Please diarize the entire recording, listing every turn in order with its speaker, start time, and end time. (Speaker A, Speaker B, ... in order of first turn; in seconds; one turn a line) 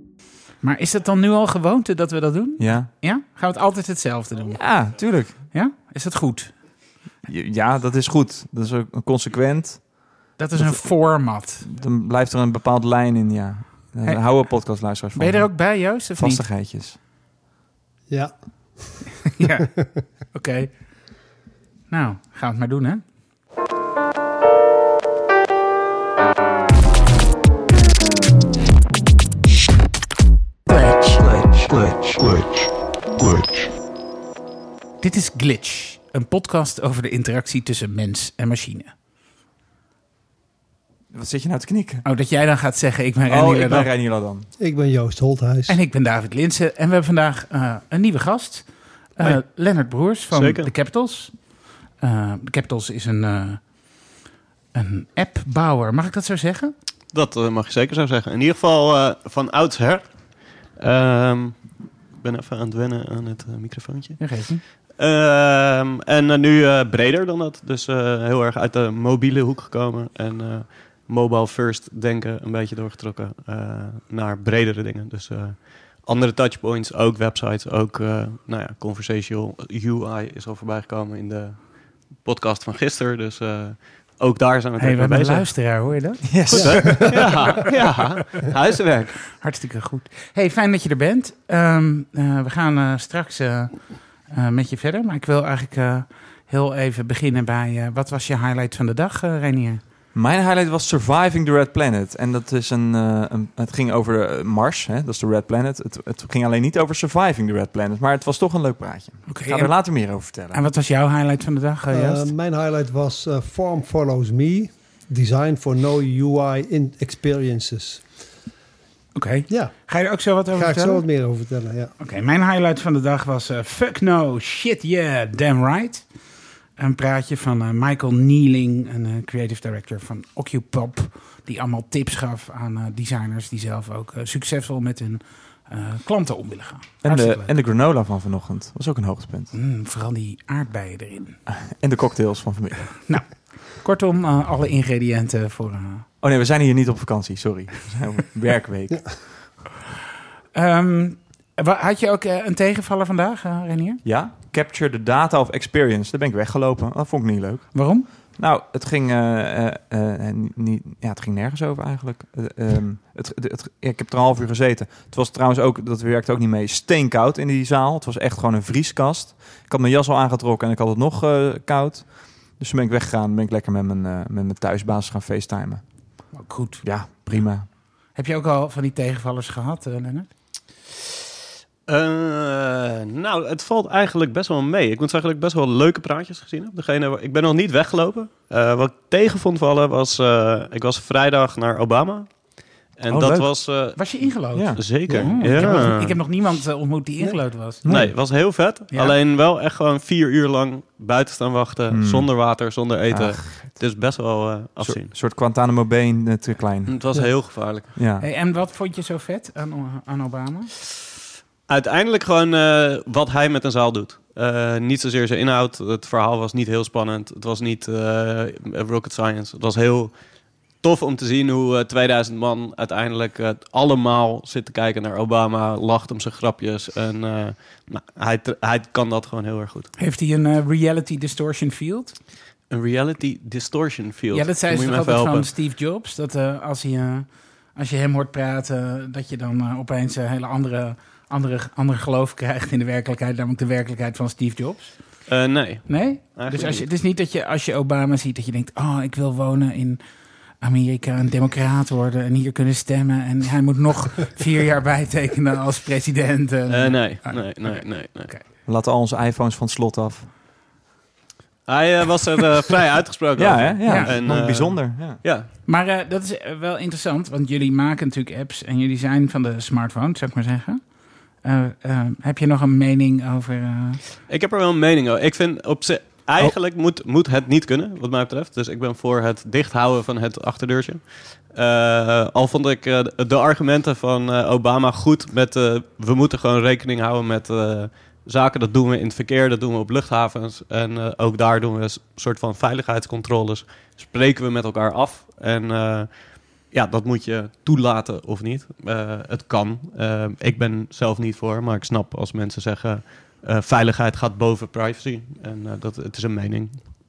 Speaker A: 0.6-6.8
Speaker B: 2.6-2.9
Speaker B: 4.5-5.4
Speaker B: 7.2-17.0
Speaker A: 10.4-11.6
Speaker A: 14.0-16.5
Speaker C: 18.1-19.1
Speaker A: 19.4-21.3
Speaker A: 21.9-23.0
Speaker D: 31.1-33.6
Speaker A: 35.0-38.9
Speaker B: 41.1-42.0
Speaker A: 42.0-43.9
Speaker B: 43.3-44.5
Speaker C: 44.6-45.8
Speaker A: 45.7-54.2
Speaker E: 49.2-50.7
Speaker A: 54.7-56.7
Speaker E: 57.1-85.7
Speaker A: 64.2-64.6
Speaker A: 84.8-87.4
Speaker B: 86.3-87.3
Speaker E: 86.5-89.3
Speaker A: 89.3-99.8
Speaker B: 100.1-110.6
Speaker A: 109.3-112.3
Speaker C: 111.9-118.1
Speaker A: 119.1-121.0
Speaker C: 119.5-119.9
Speaker C: 120.5-121.9
Speaker A: 122.0-126.2
Speaker A: 126.7-137.5
Speaker B: 137.0-139.5
Speaker A: 139.5-141.4
Speaker B: 141.7-143.4
Speaker A: 143.1-146.1
Speaker B: 146.2-149.5
Speaker A: 150.5-154.0
Speaker B: 154.0-177.7
Speaker A: 157.7-158.1
Speaker A: 176.3-180.6
Speaker E: 181.9-196.2
Speaker B: 193.1-194.0
Speaker A: 193.9-199.2
Speaker B: 194.5-195.4
Speaker C: 195.5-196.0
Speaker C: 197.2-197.5
Speaker B: 197.8-198.1
Speaker E: 197.8-205.1
Speaker B: 201.9-203.9
Speaker B: 204.8-208.3
Speaker E: 206.8-207.9
Speaker A: 208.2-210.8
Speaker E: 211.7-229.9
Speaker A: 230.0-232.1
Speaker E: 232.7-235.5
Speaker A: 234.3-258.4
Speaker E: 245.3-246.8
Speaker E: 256.7-258.3
Speaker B: 258.6-260.3
Speaker E: 261.6-265.5
Speaker B: 263.3-265.2
Speaker A: 263.9-264.1
Speaker A: 265.6-274.0
Speaker E: 274.3-307.0